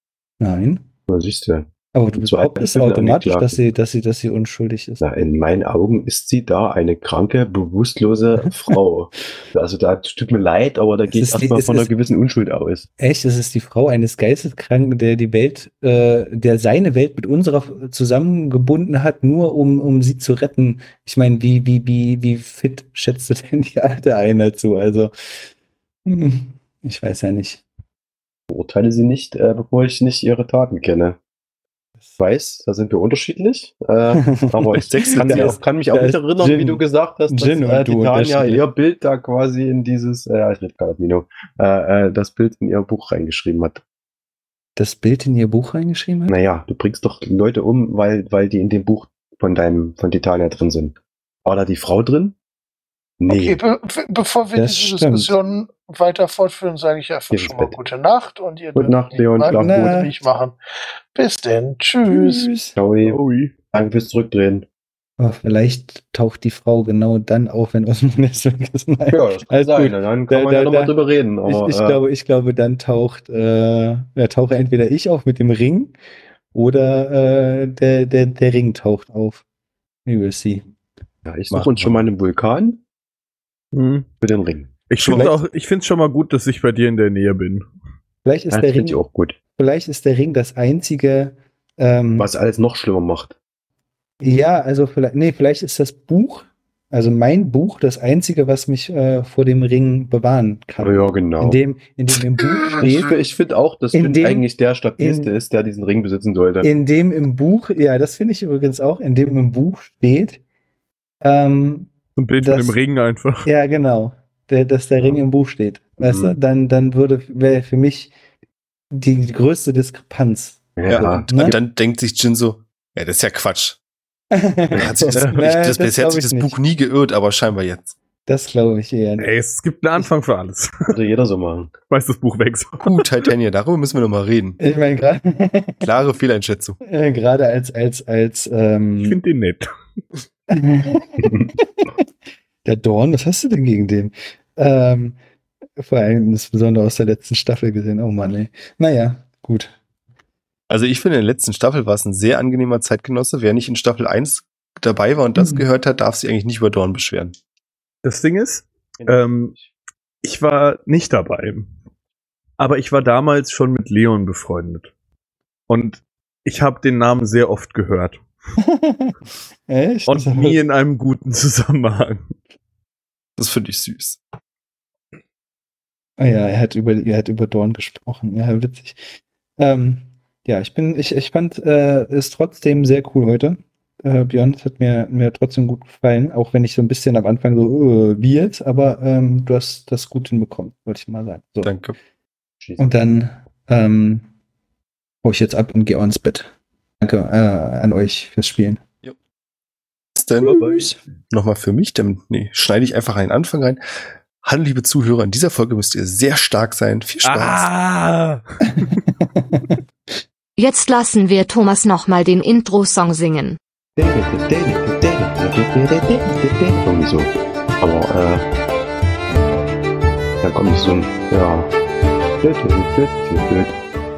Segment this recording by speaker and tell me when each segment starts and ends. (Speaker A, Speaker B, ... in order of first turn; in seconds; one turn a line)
Speaker A: 0.4-0.9
Speaker B: 1.1-3.6
Speaker A: 1.9-5.0
Speaker B: 5.0-12.9
Speaker A: 11.1-11.9
Speaker A: 13.0-25.1
Speaker A: 26.0-27.6
Speaker B: 28.5-31.2
Speaker B: 32.2-43.8
Speaker A: 34.1-38.6
Speaker C: 34.8-35.6
Speaker A: 44.8-46.3
Speaker B: 46.3-52.4
Speaker B: 53.2-53.6
Speaker D: 53.3-60.6
Speaker A: 54.5-55.4
Speaker B: 57.3-57.8
Speaker B: 58.7-59.9
Speaker A: 59.5-60.1
Speaker D: 61.1-62.5
Speaker A: 62.1-62.7
Speaker B: 62.7-63.2
Speaker E: 63.0-63.5
Speaker B: 63.7-64.7
Speaker A: 65.2-70.9
Speaker B: 69.1-72.0
Speaker A: 71.4-75.9
Speaker A: 76.5-79.4
Speaker A: 80.0-80.7
Speaker B: 81.2-82.8
Speaker C: 81.5-82.0
Speaker E: 83.7-84.1
Speaker B: 84.2-84.8
Speaker E: 84.9-87.6
Speaker C: 85.0-85.4
Speaker A: 88.2-89.0
Speaker B: 88.5-89.4
Speaker A: 89.5-92.3
Speaker B: 92.2-93.3
Speaker A: 94.2-103.2
Speaker B: 100.8-101.6
Speaker B: 102.8-106.7
Speaker A: 103.9-104.5
Speaker A: 105.0-105.3
Speaker A: 106.6-110.4
Speaker A: 111.2-112.8
Speaker E: 112.2-113.5
Speaker A: 113.4-118.1
Speaker B: 116.0-116.4
Speaker A: 118.9-120.7
Speaker B: 120.8-121.6
Speaker C: 120.9-123.8
Speaker A: 121.3-121.5
Speaker A: 124.3-126.6
Speaker C: 124.8-127.9
Speaker A: 128.2-129.3
Speaker E: 129.2-130.9
Speaker B: 130.9-131.7
Speaker E: 131.9-133.0
Speaker C: 132.8-134.6
Speaker A: 134.6-135.9
Speaker C: 135.8-136.8
Speaker A: 136.8-139.2
Speaker E: 139.0-139.7
Speaker A: 140.5-142.0
Speaker B: 141.2-141.5
Speaker A: 142.6-145.2
Speaker A: 145.8-149.8
Speaker C: 150.7-157.3
Speaker A: 155.3-155.6
Speaker E: 158.0-159.5
Speaker B: 159.0-159.7
Speaker E: 160.2-161.7
Speaker E: 162.6-164.9
Speaker E: 165.7-168.2
Speaker A: 168.6-169.1
Speaker A: 169.7-170.6
Speaker E: 170.1-172.2
Speaker C: 173.4-174.2
Speaker A: 176.2-179.1
Speaker A: 179.6-191.7
Speaker C: 191.6-191.9
Speaker B: 192.6-192.9
Speaker A: 192.8-194.3
Speaker A: 195.2-198.8
Speaker C: 200.1-200.6
Speaker A: 200.4-201.0
Speaker E: 200.5-200.8
Speaker C: 201.3-203.8
Speaker C: 204.4-207.7
Speaker E: 207.2-209.0
Speaker A: 208.7-209.7
Speaker F: 210.6-213.6
Speaker B: 214.0-218.4
Speaker B: 220.4-221.7
Speaker B: 222.4-223.8